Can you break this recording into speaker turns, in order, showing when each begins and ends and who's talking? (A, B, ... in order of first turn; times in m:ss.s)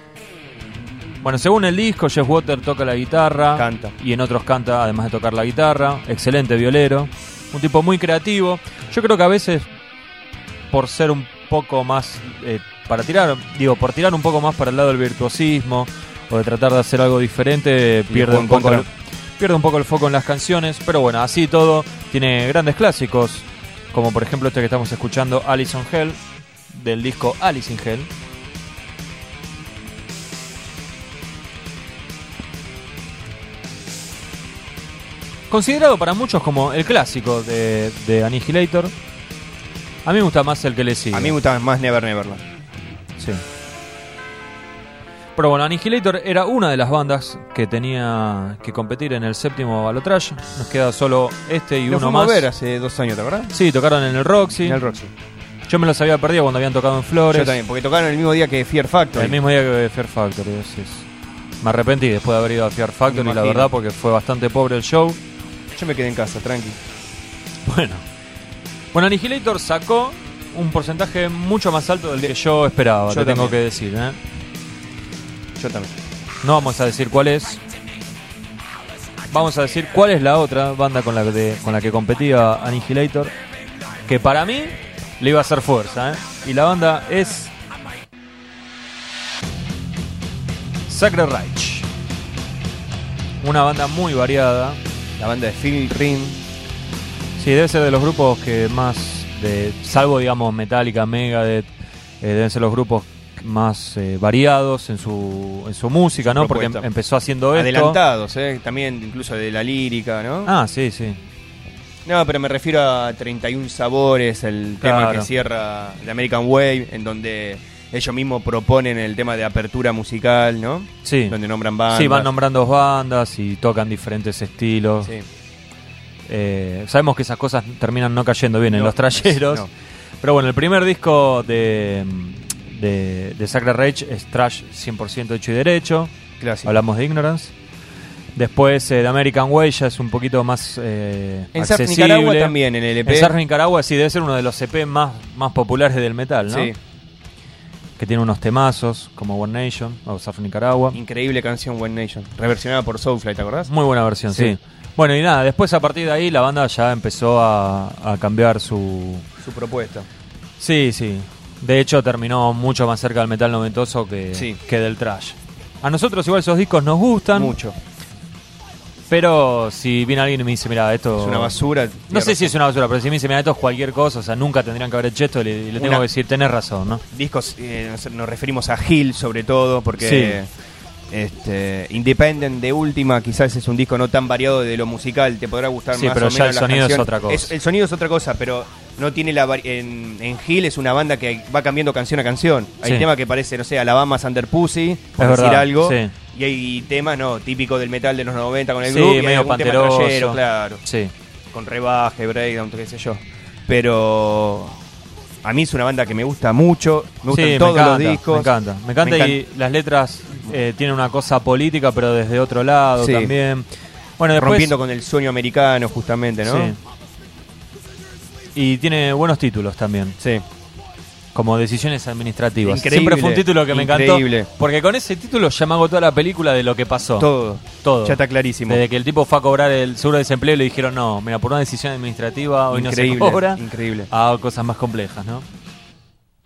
0:01.2-0:09.7 A
0:03.5-0:03.9 B
0:10.7-0:26.2 A
0:18.1-0:18.8 B
0:26.7-0:28.1 A
0:35.5-0:38.9 A
0:40.0-0:41.4 A
0:41.1-0:42.4 B
0:43.2-0:43.4 A
0:45.4-0:52.5 A
0:51.9-0:53.5 B
0:53.5-0:54.8 A
0:54.6-0:55.1 B
0:55.7-0:57.6 A
0:57.3-0:59.4 B
0:59.1-1:01.1 A
1:01.6-1:05.2 A
1:03.1-1:03.7 B
1:05.7-1:06.8 B
1:07.6-1:08.0 A
1:08.9-1:14.2 A
1:13.1-1:13.6 B
1:15.6-1:15.9 B
1:16.4-1:17.6 A
1:19.3-1:23.3 A
1:24.0-1:27.5 A
1:30.9-1:31.9 A
1:33.4-1:34.8 A
1:35.2-1:36.4 B
1:37.4-1:41.7 A
1:42.2-1:48.0 A
1:46.2-1:46.8 B
1:47.5-1:50.5 B
1:50.4-1:51.2 A
1:52.0-2:02.3 B
1:54.8-1:55.3 A
2:01.0-2:01.4 A
2:01.9-2:05.1 A
2:06.3-2:09.7 A
2:08.6-2:09.7 B
2:10.2-2:16.1 A
2:16.4-2:16.7 B
2:16.6-2:17.5 A
2:18.3-2:26.7 A
2:21.5-2:23.3 B
2:26.5-2:26.8 B
2:28.0-2:31.0 A
2:30.9-2:33.7 B
2:33.7-2:39.2 A
2:34.3-2:34.6 B
2:39.4-2:40.1 B
2:40.6-2:47.5 A
2:47.3-2:47.8 B
2:49.1-2:51.6 A
2:51.2-2:52.5 B
2:52.1-2:57.0 A
2:55.8-2:56.0 B
2:57.1-3:00.5 B
3:00.0-3:00.4 A
3:01.1-3:20.8 B
3:05.9-3:07.5 A
3:15.2-3:16.1 A
3:18.8-3:21.1 A
3:21.5-3:24.8 B
3:25.4-3:29.4 B
3:27.3-3:33.7 A
3:33.0-3:33.3 B
3:34.2-3:34.7 A
3:34.4-3:36.8 B
3:36.4-3:36.8 A
3:38.5-3:40.2 A
3:40.2-3:40.4 B
3:41.3-3:47.3 A
3:42.6-3:44.5 B
3:47.2-3:48.8 B
3:47.8-3:55.4 A
3:52.7-3:54.1 B